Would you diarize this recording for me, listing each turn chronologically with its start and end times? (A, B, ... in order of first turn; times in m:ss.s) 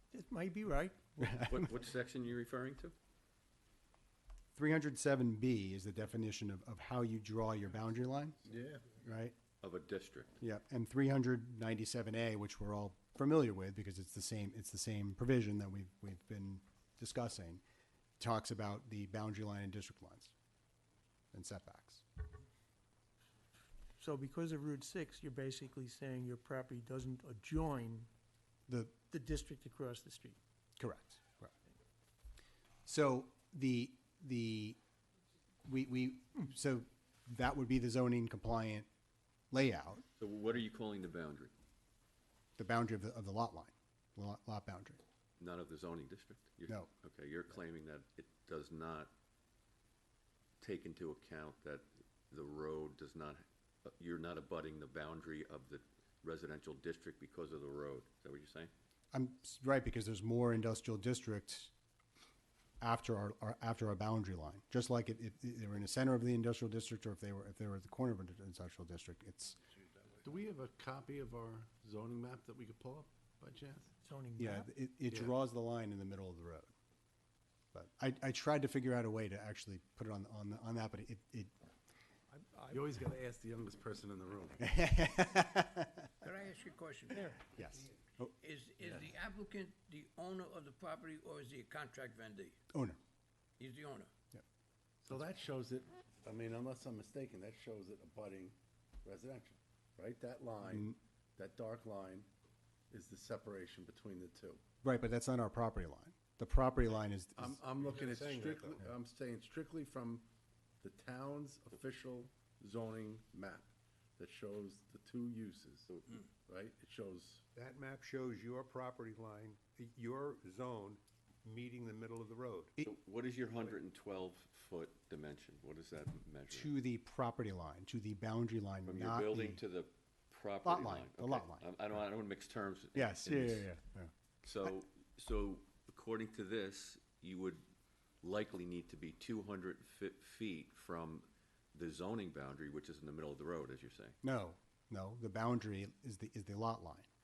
0:00.1-0:01.4 A
0:01.2-0:01.7 B
0:01.5-0:03.0 C
0:04.6-0:08.4 B
0:08.5-0:08.9 D
0:09.0-0:09.4 B
0:09.6-0:10.4 C
0:10.4-0:17.6 B
0:18.2-0:20.3 B
0:21.3-0:22.0 B
0:24.0-0:28.1 A
0:28.7-0:29.0 B
0:29.1-0:30.4 A
0:30.8-0:31.5 B
0:32.9-0:34.8 B
0:35.6-0:38.9 B
0:39.5-0:40.0 B
0:40.2-0:41.5 C
0:42.6-0:45.0 B
0:45.4-0:49.1 C
0:50.6-0:58.7 C
0:59.1-1:01.7 B
1:02.8-1:09.6 B
1:10.0-1:13.9 D
1:14.0-1:14.7 A
1:14.4-1:16.7 B
1:17.7-1:21.5 B
1:22.3-1:22.8 A
1:22.7-1:24.6 D
1:24.6-1:26.1 B
1:26.2-1:27.2 E
1:27.2-1:27.6 A
1:27.5-1:28.3 B
1:28.4-1:32.6 E
1:28.8-1:29.1 D
1:32.7-1:33.0 B
1:33.6-1:34.1 E
1:35.0-1:42.3 D
1:40.7-1:41.0 B
1:42.9-1:44.6 D
1:44.8-1:47.6 B
1:47.4-1:50.3 D
1:47.8-1:48.8 F
1:50.8-1:55.9 D
1:55.9-1:56.2 C
1:56.4-1:57.4 D
1:57.6-2:02.7 F
2:02.8-2:06.8 C
2:06.5-2:09.6 B
2:08.9-2:13.7 C
2:10.6-2:11.7 B
2:13.0-2:14.1 B
2:14.4-2:17.6 C
2:18.2-2:24.2 C
2:24.2-2:27.1 B